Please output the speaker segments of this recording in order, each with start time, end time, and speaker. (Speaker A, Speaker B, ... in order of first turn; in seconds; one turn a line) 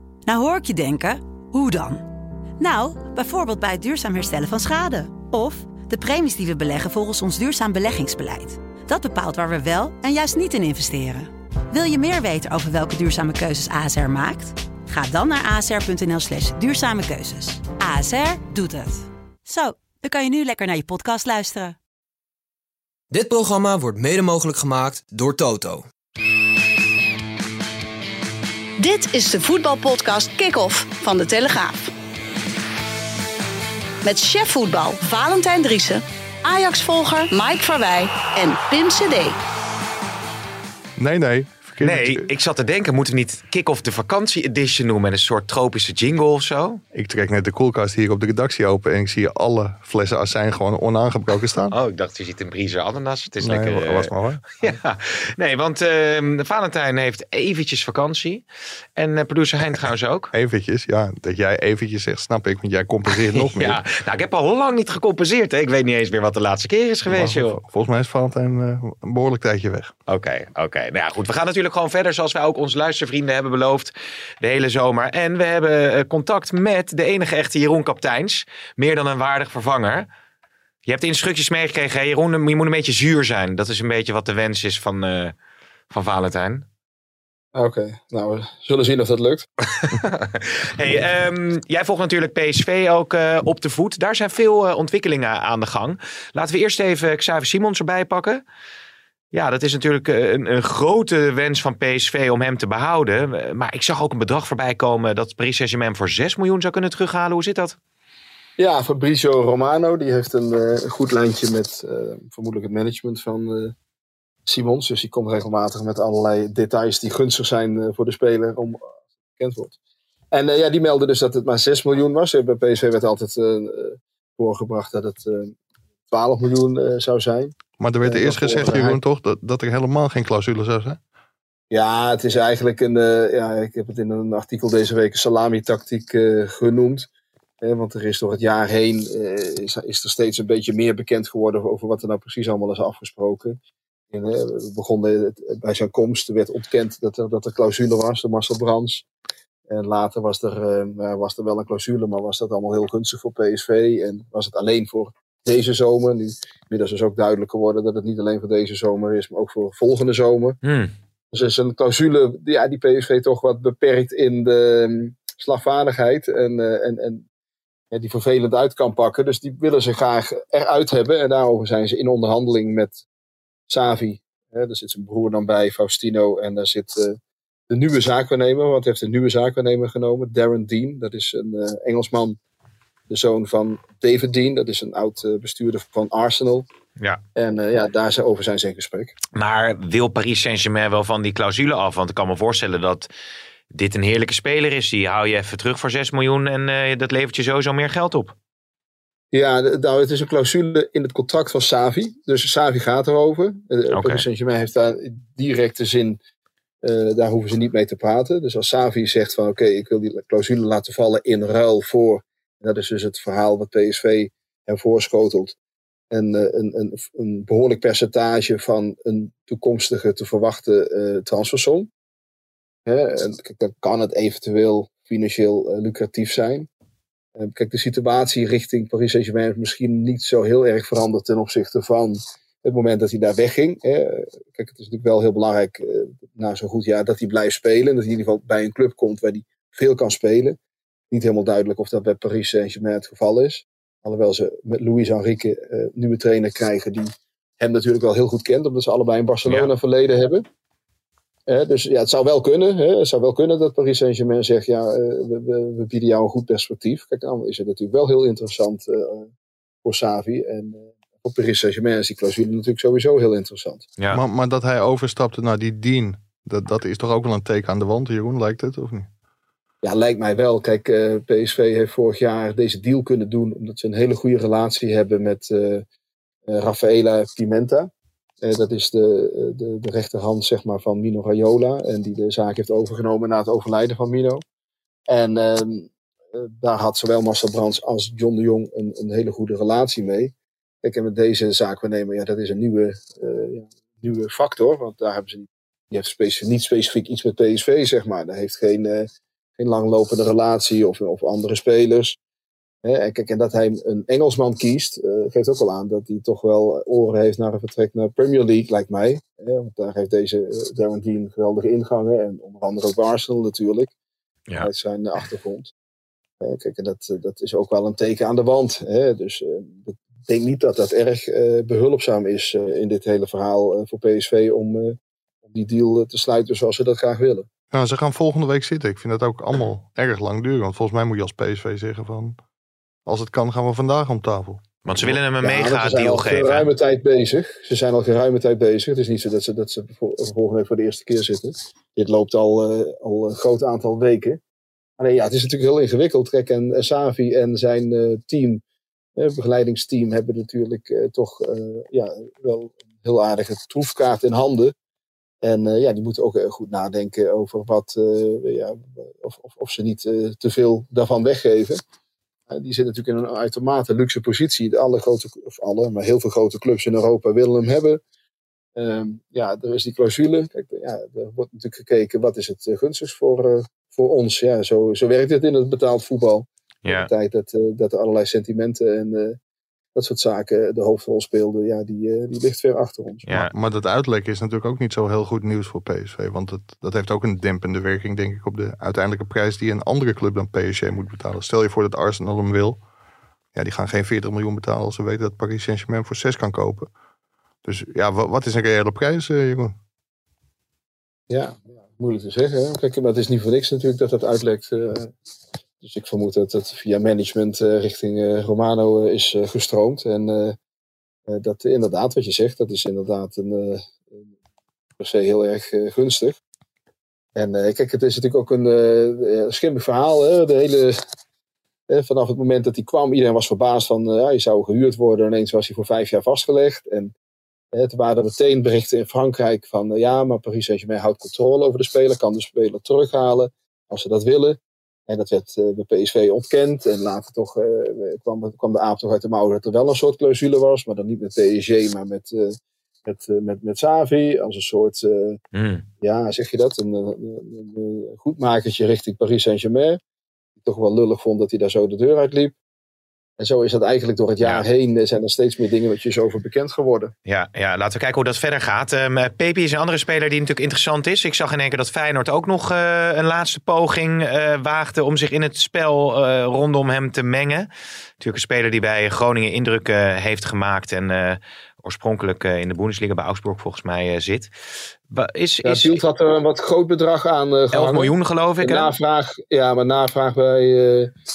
Speaker A: 0.3-2.0
Speaker A: 2.6-21.8
Speaker B: 23.1-25.9
Speaker C: 28.8-31.9
Speaker C: 34.0-39.4
Speaker D: 41.0-42.3
Speaker E: 41.8-46.8
Speaker D: 46.9-51.8
Speaker E: 51.7-58.5
Speaker D: 53.4-54.8
Speaker E: 59.0-60.3
Speaker D: 60.3-63.8
Speaker E: 63.3-67.6
Speaker D: 67.1-69.9
Speaker E: 70.1-80.1
Speaker E: 80.9-85.3
Speaker E: 85.9-86.7
Speaker F: 87.5-89.5
Speaker E: 89.7-98.4
Speaker E: 99.3-107.8
Speaker F: 108.6-113.8
Speaker F: 114.5-119.8
Speaker F: 120.3-125.5
Speaker F: 126.1-129.0
Speaker D: 127.8-131.0
Speaker F: 131.7-137.1
Speaker F: 137.6-143.6
Speaker F: 144.1-149.1
Speaker F: 149.7-160.6
Speaker E: 160.6-160.9
Speaker F: 161.3-167.3
Speaker F: 167.9-173.0
Speaker F: 173.7-177.2
Speaker F: 177.7-182.4
Speaker F: 183.1-186.7
Speaker F: 187.4-189.1
Speaker E: 189.4-193.1
Speaker E: 193.7-198.3
Speaker F: 199.3-206.2
Speaker E: 203.9-204.2
Speaker F: 206.8-215.6
Speaker F: 216.1-221.9
Speaker F: 222.9-226.7
Speaker F: 227.4-240.6
Speaker F: 241.1-250.4
Speaker F: 251.5-259.3
Speaker F: 259.8-263.9
Speaker D: 264.1-269.1
Speaker F: 269.8-275.9
Speaker F: 276.5-284.4
Speaker F: 285.1-302.2
Speaker F: 302.8-313.9
Speaker F: 314.6-315.7
Speaker F: 316.4-325.0
Speaker F: 325.5-327.5
Speaker D: 327.7-332.4
Speaker D: 333.1-335.2
Speaker E: 334.9-336.7
Speaker F: 335.4-344.4
Speaker F: 345.0-348.6
Speaker F: 349.2-354.7
Speaker F: 355.4-361.8
Speaker F: 362.5-368.0
Speaker F: 368.8-379.4
Speaker F: 379.9-383.3
Speaker E: 383.3-383.5
Speaker D: 383.3-392.8
Speaker D: 393.5-396.9
Speaker D: 397.6-399.8
Speaker F: 401.3-405.1
Speaker F: 405.8-410.6
Speaker F: 411.3-414.2
Speaker F: 415.0-416.4
Speaker F: 417.4-421.0
Speaker F: 421.9-427.1
Speaker F: 427.7-445.4
Speaker E: 445.5-445.9
Speaker F: 446.0-450.0
Speaker F: 450.6-452.6
Speaker F: 453.4-457.1
Speaker E: 457.3-467.7
Speaker E: 468.2-474.5
Speaker E: 475.1-476.0
Speaker F: 475.6-481.1
Speaker E: 477.7-478.9